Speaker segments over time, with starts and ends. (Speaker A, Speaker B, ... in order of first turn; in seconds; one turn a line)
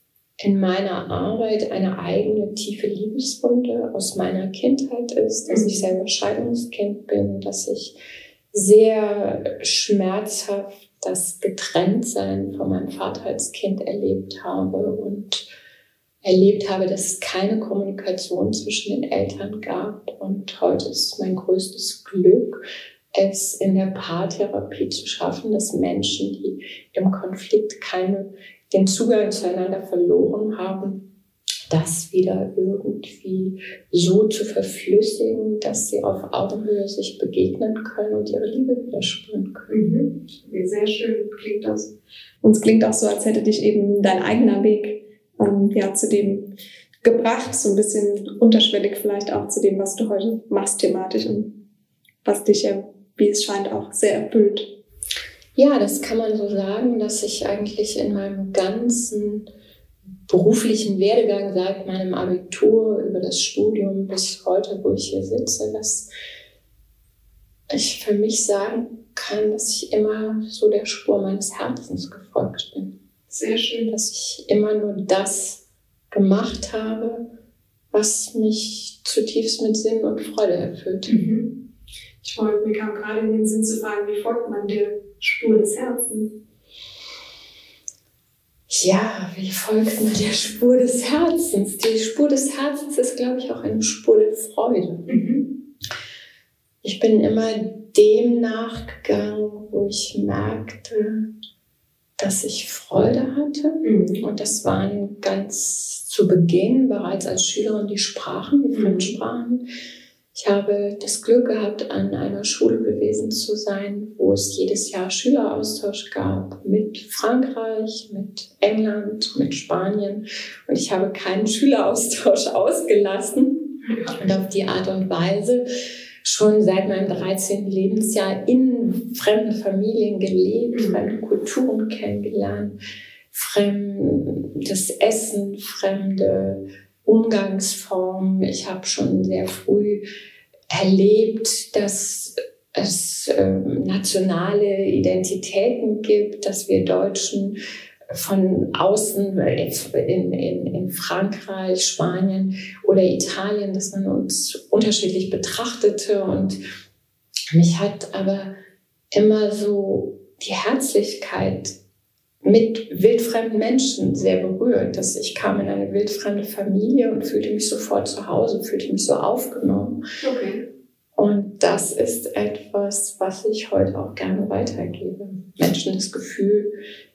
Speaker A: 0.4-8.0
Speaker B: 5.5-5.8
Speaker A: 8.5-15.5
Speaker A: 16.2-31.0
Speaker A: 31.7-39.7
Speaker B: 39.7-46.5
Speaker B: 47.0-51.5
Speaker B: 52.2-54.7
Speaker A: 55.5-59.5
Speaker A: 60.3-66.1
Speaker A: 67.7-72.9
Speaker B: 73.3-73.9
Speaker A: 73.8-77.3
Speaker A: 77.9-81.2
Speaker B: 81.1-81.5
Speaker B: 82.2-86.3
Speaker A: 88.7-95.0
Speaker B: 95.1-95.4
Speaker A: 96.8-101.2
Speaker A: 102.2-109.6
Speaker B: 103.8-104.2
Speaker B: 108.8-109.0
Speaker A: 110.3-125.7
Speaker A: 126.2-132.8
Speaker B: 130.7-131.0
Speaker A: 133.3-140.1
Speaker A: 140.7-147.6
Speaker A: 148.1-156.6
Speaker A: 157.5-158.5
Speaker A: 159.1-161.8
Speaker A: 162.4-170.0
Speaker B: 170.2-170.5
Speaker A: 171.2-176.8